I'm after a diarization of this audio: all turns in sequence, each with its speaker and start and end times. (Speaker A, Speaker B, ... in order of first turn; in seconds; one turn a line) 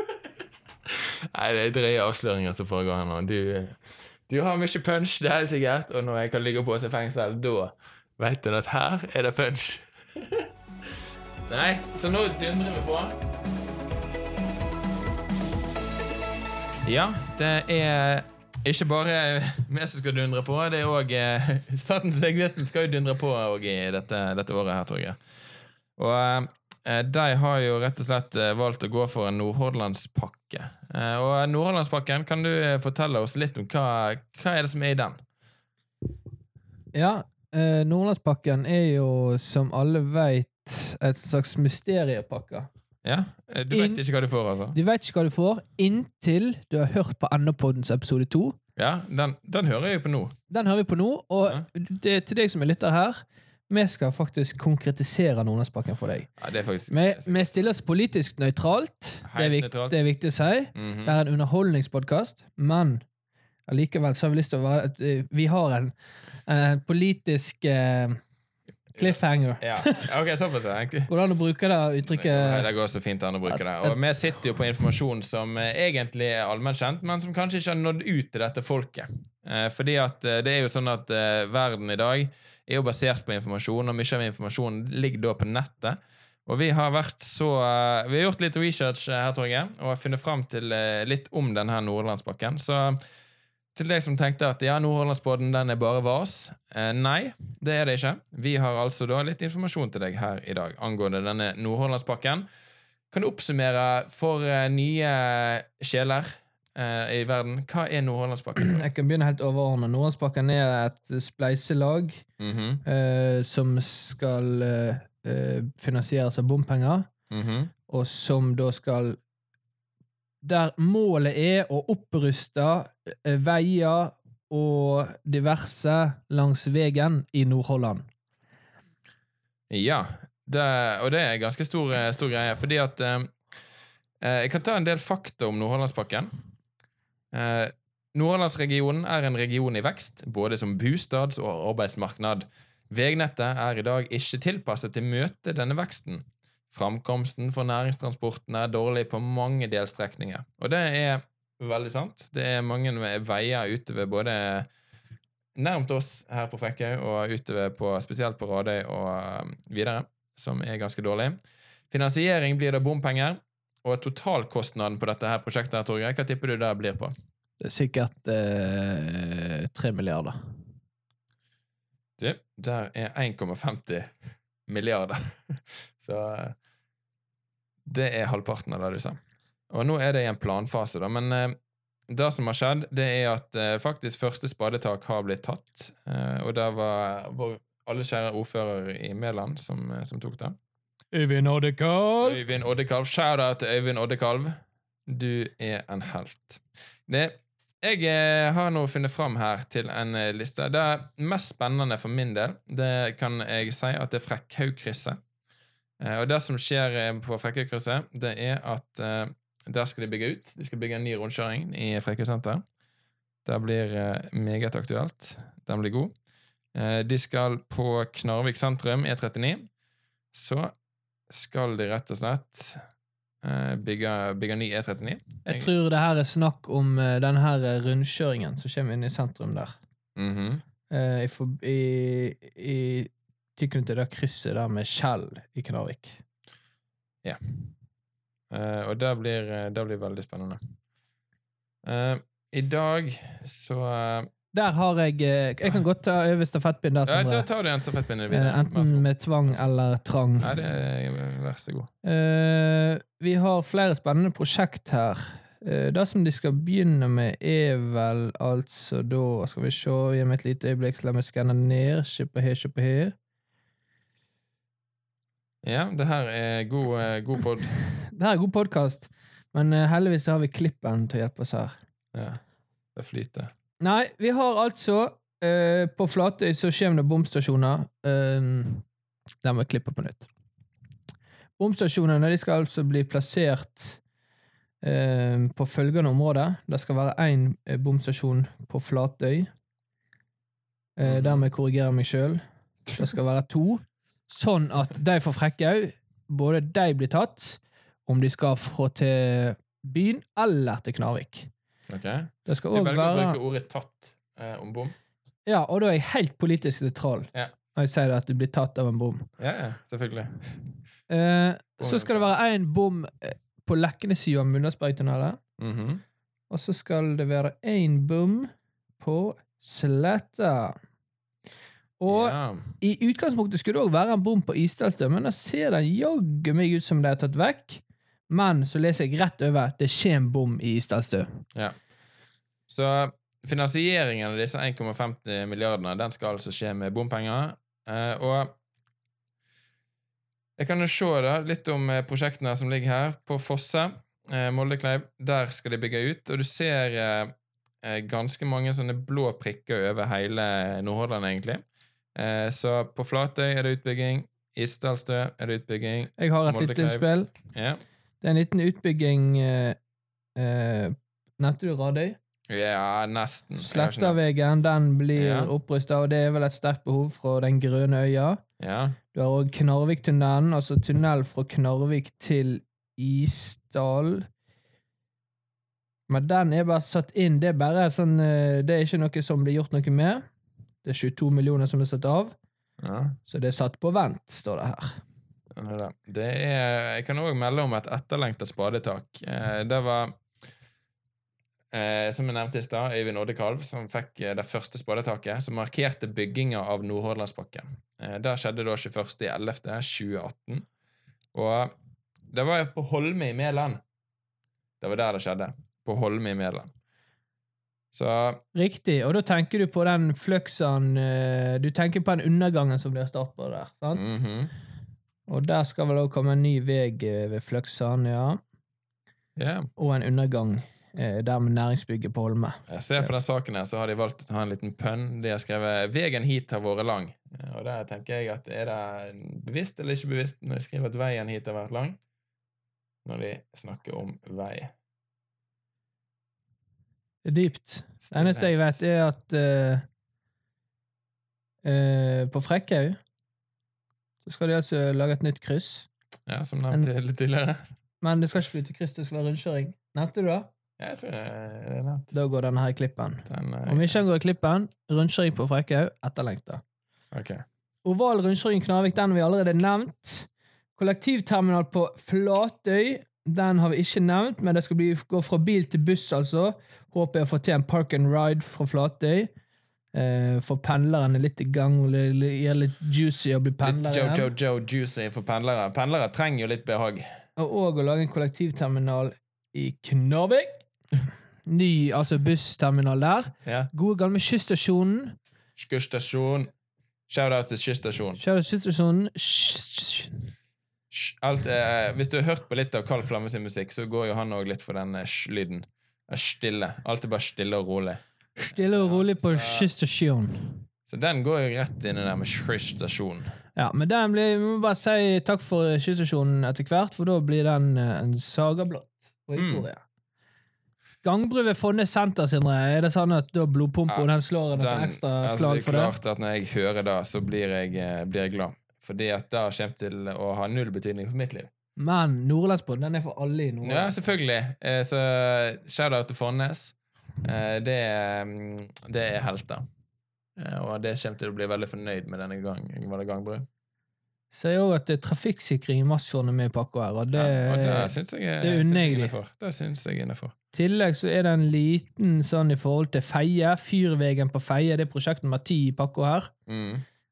Speaker A: 0.9-10.5
Speaker A: 11.5-13.2
Speaker A: 16.9-25.2
Speaker A: 26.0-35.2
Speaker B: 36.9-42.7
Speaker A: 43.0-44.8
Speaker B: 43.7-44.0
Speaker B: 44.7-48.6
Speaker A: 48.8-50.4
Speaker B: 50.5-56.3
Speaker A: 56.4-57.5
Speaker B: 56.9-63.0
Speaker A: 59.2-60.0
Speaker A: 60.8-61.2
Speaker B: 63.7-65.9
Speaker B: 66.5-68.2
Speaker A: 68.9-71.1
Speaker B: 69.0-70.1
Speaker B: 71.1-72.7
Speaker A: 72.1-93.0
Speaker B: 73.5-74.0
Speaker A: 93.8-102.5
Speaker A: 103.1-108.9
Speaker B: 108.6-112.2
Speaker A: 112.4-112.8
Speaker B: 112.8-117.1
Speaker A: 117.3-117.7
Speaker B: 117.9-119.2
Speaker B: 120.4-128.1
Speaker A: 129.7-133.3
Speaker A: 134.2-136.3
Speaker A: 137.3-154.7
Speaker A: 155.6-161.4
Speaker A: 161.9-167.1
Speaker B: 167.6-170.6
Speaker A: 172.2-174.2
Speaker A: 174.7-176.6
Speaker A: 177.8-181.6
Speaker A: 182.1-190.6
Speaker B: 191.1-192.4
Speaker A: 192.2-205.2
Speaker A: 206.0-212.6
Speaker A: 213.4-216.1
Speaker A: 216.8-219.7
Speaker A: 220.3-220.7
Speaker A: 221.3-222.8
Speaker A: 223.4-225.7
Speaker B: 225.5-229.8
Speaker A: 230.2-230.6
Speaker B: 230.9-236.2
Speaker A: 238.5-240.6
Speaker A: 241.8-244.3
Speaker B: 244.5-247.5
Speaker A: 247.1-249.6
Speaker B: 248.3-250.6
Speaker A: 250.4-251.9
Speaker B: 252.0-263.1
Speaker A: 265.6-267.8
Speaker B: 267.9-271.8
Speaker A: 272.1-272.4
Speaker A: 273.0-273.5
Speaker B: 273.8-278.9
Speaker B: 279.4-280.3
Speaker B: 281.6-284.0
Speaker B: 284.8-289.5
Speaker B: 291.0-292.4
Speaker A: 291.0-291.5
Speaker B: 293.0-301.5
Speaker A: 301.9-304.9
Speaker B: 302.5-303.4
Speaker B: 305.5-309.3
Speaker A: 309.4-310.6
Speaker B: 311.1-315.4
Speaker A: 311.8-312.3
Speaker A: 315.6-316.0
Speaker B: 316.5-320.8
Speaker B: 322.0-331.4
Speaker A: 322.1-322.6
Speaker A: 332.7-338.6
Speaker A: 340.6-351.6
Speaker A: 352.1-357.8
Speaker B: 356.2-357.3
Speaker B: 358.2-359.8
Speaker B: 360.4-362.2
Speaker A: 362.5-364.2
Speaker B: 363.6-368.4
Speaker A: 365.1-365.5
Speaker A: 368.6-369.0
Speaker B: 369.1-374.3
Speaker B: 376.1-380.2
Speaker B: 380.8-382.4
Speaker A: 382.8-383.2
Speaker B: 383.3-385.0
Speaker A: 385.5-390.2
Speaker A: 391.7-400.7
Speaker A: 401.3-401.7
Speaker A: 402.3-403.8
Speaker A: 404.8-406.7
Speaker A: 407.9-408.4
Speaker B: 408.6-414.1
Speaker A: 413.9-414.5
Speaker B: 415.3-418.4
Speaker A: 419.4-419.7
Speaker B: 419.8-423.1
Speaker A: 422.7-432.0
Speaker A: 433.1-434.7
Speaker B: 437.2-439.9
Speaker A: 438.1-438.8
Speaker B: 441.6-443.0
Speaker B: 444.2-445.9
Speaker A: 446.3-447.6
Speaker B: 448.0-450.5
Speaker A: 450.8-452.1
Speaker B: 452.1-456.6
Speaker A: 453.3-454.0
Speaker A: 457.1-457.4
Speaker B: 457.9-469.3
Speaker B: 469.9-474.3
Speaker A: 473.6-477.0
Speaker B: 477.4-480.6
Speaker B: 481.5-485.2
Speaker A: 483.4-483.7
Speaker A: 485.6-486.5
Speaker A: 487.1-488.2
Speaker B: 488.2-490.3
Speaker A: 490.9-499.7
Speaker B: 498.5-500.6
Speaker A: 500.9-503.3
Speaker B: 503.6-509.8
Speaker A: 509.4-509.7
Speaker B: 511.0-516.0
Speaker A: 513.9-521.5
Speaker B: 521.8-524.0
Speaker A: 523.6-529.6
Speaker A: 530.4-533.5
Speaker B: 534.3-539.1
Speaker A: 537.1-540.3
Speaker B: 540.5-546.3
Speaker A: 546.5-546.9